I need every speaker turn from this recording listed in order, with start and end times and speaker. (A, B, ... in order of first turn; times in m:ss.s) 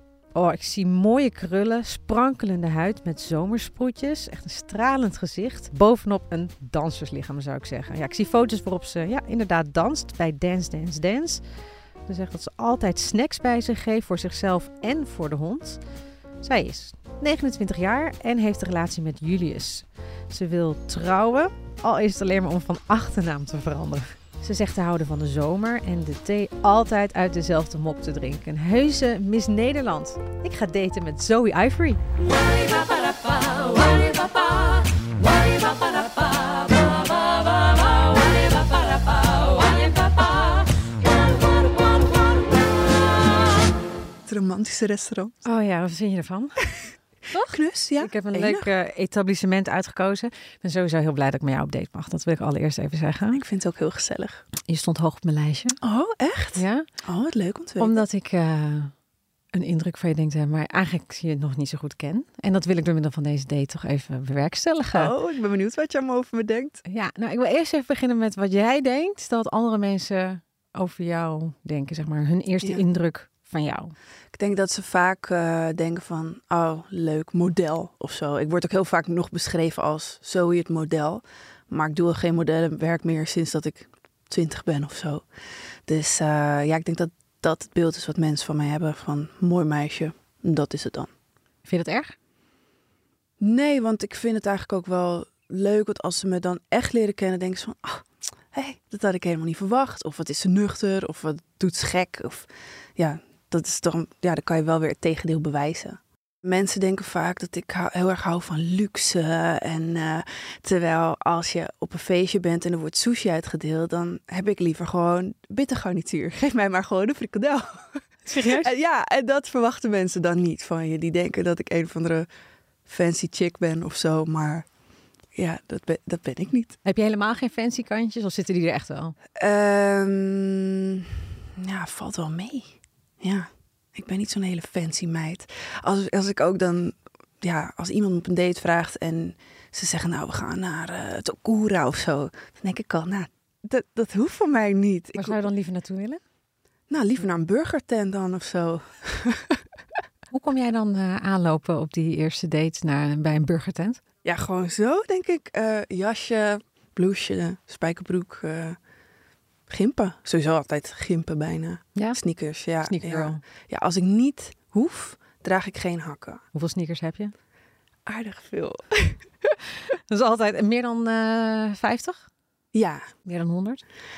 0:00.4-0:11.4 A
0:12.1-0:15.8 A
0:16.4-0:42.4 A
0:44.3-0:45.4 B
0:45.4-0:53.4 A
0:47.4-0:48.7 B
0:53.3-0:54.4 B
0:54.7-0:55.8 A
0:55.8-0:58.0 B
0:56.6-0:56.9 A
0:57.8-0:58.9 A
0:59.5-1:05.1 A
1:04.9-1:06.8 B
1:06.9-1:13.9 A
1:14.3-1:25.2 B
1:25.9-1:31.1 B
1:31.6-1:32.1 A
1:33.4-2:02.3 B
1:58.3-1:58.7 A
2:02.9-2:04.7 B
2:05.3-2:06.8 B
2:06.8-2:09.2 A
2:09.4-2:25.4 B
2:25.2-2:26.2 A
2:26.9-2:29.6 B
2:30.3-2:34.0 A
2:34.2-2:38.8 B
2:39.7-2:46.4 B
2:42.8-2:43.4 A
2:46.5-2:47.3 A
2:48.1-2:49.5 B
2:49.9-2:52.2 A
2:52.7-2:53.0 B
2:53.2-2:53.8 A